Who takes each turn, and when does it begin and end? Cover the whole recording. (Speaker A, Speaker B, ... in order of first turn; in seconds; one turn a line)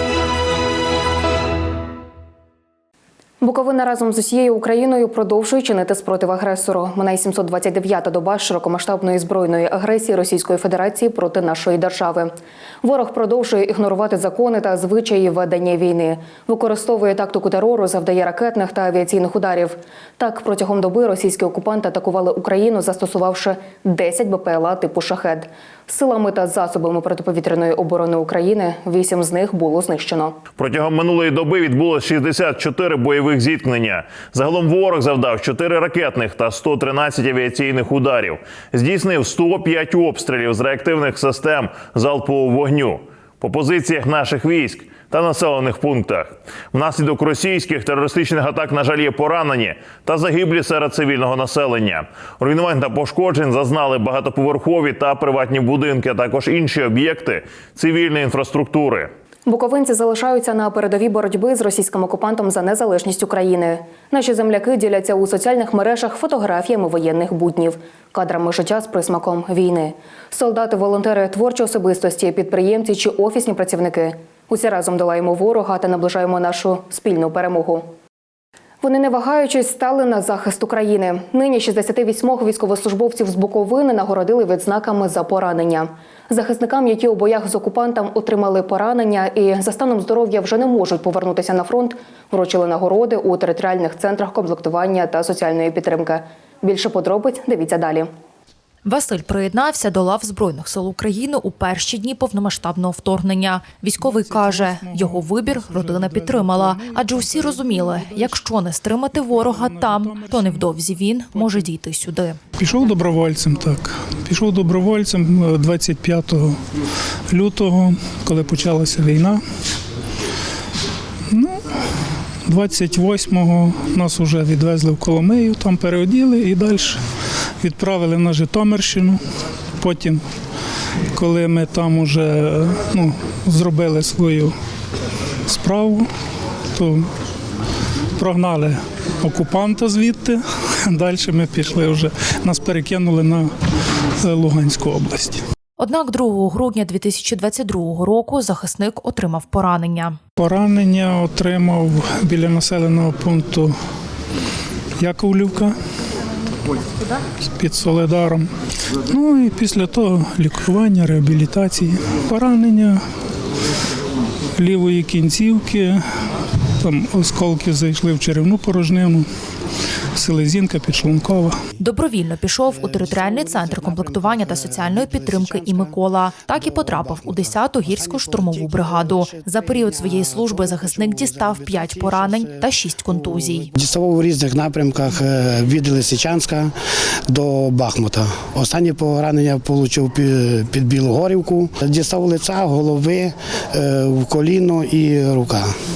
Speaker A: 3.4-30.4
Speaker B: 30.6-59.0
Speaker A: 59.5-77.8
Speaker A: 78.8-98.1
Speaker C: 98.8-112.4
Speaker D: 104.0-108.5
Speaker D: 109.1-110.7
Speaker D: 111.3-111.7
Speaker D: 112.6-116.6
Speaker D: 117.3-119.4
Speaker D: 121.3-121.6
Speaker D: 122.4-127.0
Speaker D: 127.6-129.2
Speaker D: 129.8-130.2
Speaker D: 131.1-134.6
Speaker D: 135.5-136.1
Speaker D: 136.7-137.1
Speaker D: 138.2-143.5
Speaker D: 144.2-145.4
Speaker C: 145.8-150.2
Speaker D: 150.4-153.8
Speaker D: 155.0-155.8
Speaker D: 157.6-158.5
Speaker D: 159.1-163.0
Speaker D: 164.6-166.1
Speaker D: 166.8-169.3
Speaker D: 170.1-171.6
Speaker C: 171.8-183.7
Speaker E: 172.7-186.7
Speaker E: 187.3-195.7